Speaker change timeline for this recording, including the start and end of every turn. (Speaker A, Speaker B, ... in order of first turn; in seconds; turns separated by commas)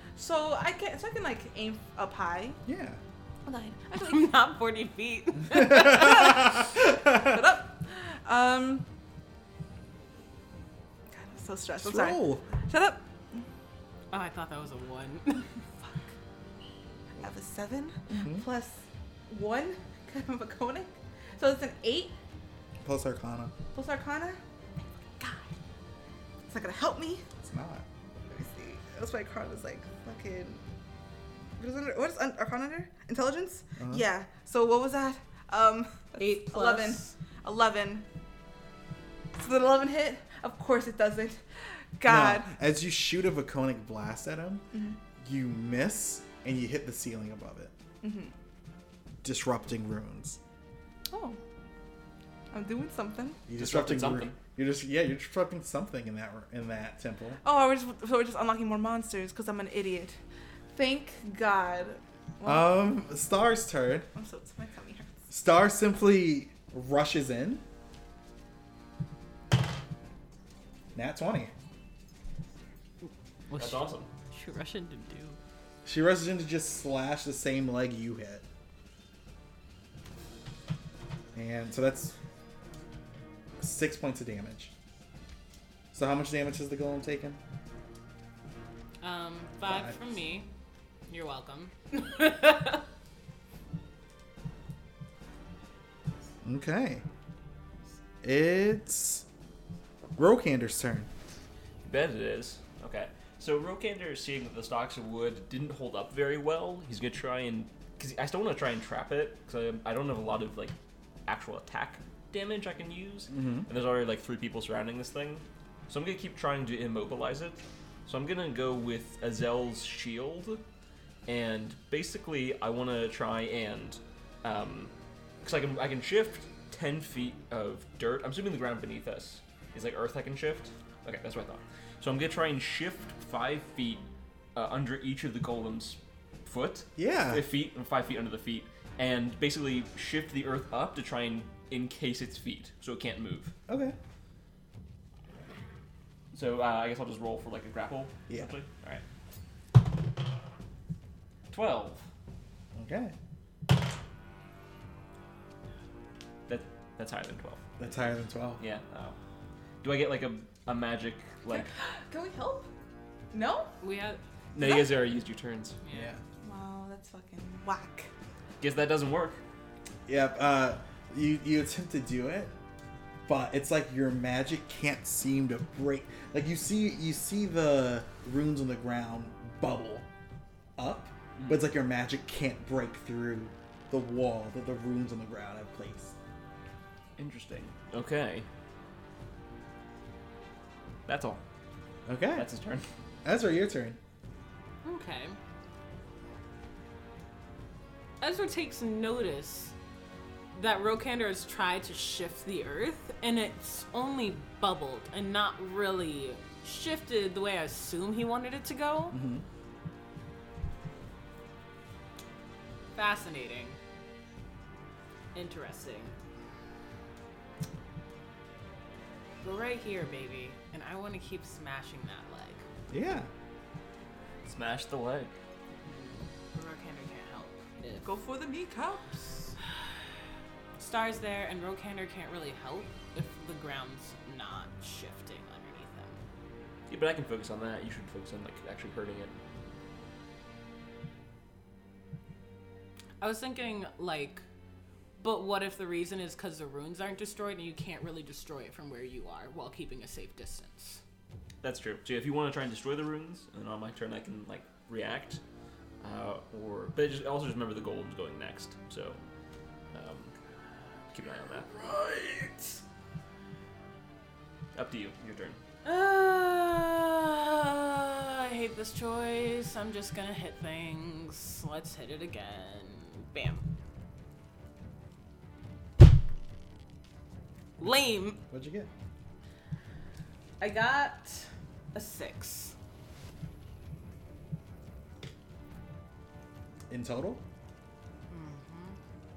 Speaker A: 0.1-2.6, Speaker B: 2.6-3.0, Speaker A: 3.4-4.2, Speaker C: 4.0-6.5, Speaker B: 5.6-7.4, Speaker A: 5.7-8.8, Speaker A: 11.1-13.4, Speaker B: 11.8-12.5, Speaker C: 14.1-15.5, Speaker A: 15.8-16.1, Speaker A: 17.2-22.1, Speaker B: 18.1-18.4, Speaker B: 22.8-23.5, Speaker A: 23.7-24.4, Speaker A: 25.2-25.5, Speaker A: 26.4-27.2, Speaker B: 27.4-27.9, Speaker A: 28.3-30.6, Speaker A: 31.6-38.0, Speaker B: 33.8-34.1, Speaker C: 36.2-37.1, Speaker A: 39.4-41.4, Speaker A: 42.0-42.5, Speaker B: 42.0-44.6, Speaker A: 44.7-45.0, Speaker B: 45.2-47.7, Speaker A: 48.0-48.3, Speaker B: 49.2-50.4, Speaker A: 51.1-51.4, Speaker A: 52.5-53.4, Speaker B: 53.5-57.4, Speaker D: 53.6-54.3, Speaker A: 57.4-60.2, Speaker A: 60.7-62.7, Speaker B: 62.4-64.1, Speaker A: 64.1-65.2, Speaker B: 65.3-67.6, Speaker B: 70.9-71.5, Speaker C: 73.0-75.4, Speaker D: 73.5-74.1, Speaker B: 75.8-78.4, Speaker B: 81.3-82.2, Speaker B: 83.6-84.7, Speaker B: 85.9-87.4, Speaker C: 89.0-90.5, Speaker B: 89.6-90.0, Speaker C: 91.1-92.8, Speaker B: 96.4-97.0, Speaker B: 98.2-99.2, Speaker B: 100.2-101.1, Speaker D: 101.8-110.7, Speaker D: 111.3-120.6, Speaker B: 113.3-113.7, Speaker D: 121.3-124.9, Speaker D: 125.4-143.5, Speaker B: 137.0-137.4, Speaker B: 143.7-144.0, Speaker D: 146.3-149.0, Speaker D: 151.5-152.1, Speaker B: 152.7-153.1, Speaker D: 156.5-159.2, Speaker B: 157.8-158.6, Speaker D: 159.8-161.7, Speaker A: 161.5-162.7, Speaker A: 163.3-163.7, Speaker C: 163.8-164.2, Speaker D: 164.5-165.8, Speaker A: 164.6-164.9, Speaker C: 165.8-166.1, Speaker B: 165.9-166.2, Speaker A: 166.4-168.1, Speaker D: 168.6-169.4, Speaker B: 170.1-172.5, Speaker B: 173.2-180.1, Speaker B: 180.8-186.1, Speaker D: 181.4-181.6, Speaker D: 187.2-188.4, Speaker D: 191.1-191.4, Speaker B: 192.1-192.5, Speaker D: 192.3-192.8, Speaker B: 193.2-194.0, Speaker C: 194.8-195.4, Speaker C: 198.2-199.7, Speaker C: 200.5-209.2, Speaker B: 209.1-209.4, Speaker C: 212.9-213.8, Speaker C: 215.3-216.1, Speaker C: 219.4-222.6, Speaker B: 222.9-223.3, Speaker D: 224.4-225.3, Speaker C: 225.8-228.1, Speaker A: 228.0-229.5, Speaker C: 230.8-236.2, Speaker D: 236.9-239.4, Speaker C: 243.2-244.4, Speaker C: 245.2-251.0, Speaker D: 251.6-255.4, Speaker D: 256.0-259.2, Speaker D: 259.9-260.3, Speaker D: 261.1-261.8, Speaker C: 261.7-262.8, Speaker D: 264.7-265.6, Speaker C: 265.8-273.6, Speaker C: 277.8-278.4, Speaker B: 278.4-278.9, Speaker C: 280.6-282.7, Speaker B: 286.9-287.4, Speaker C: 288.3-289.0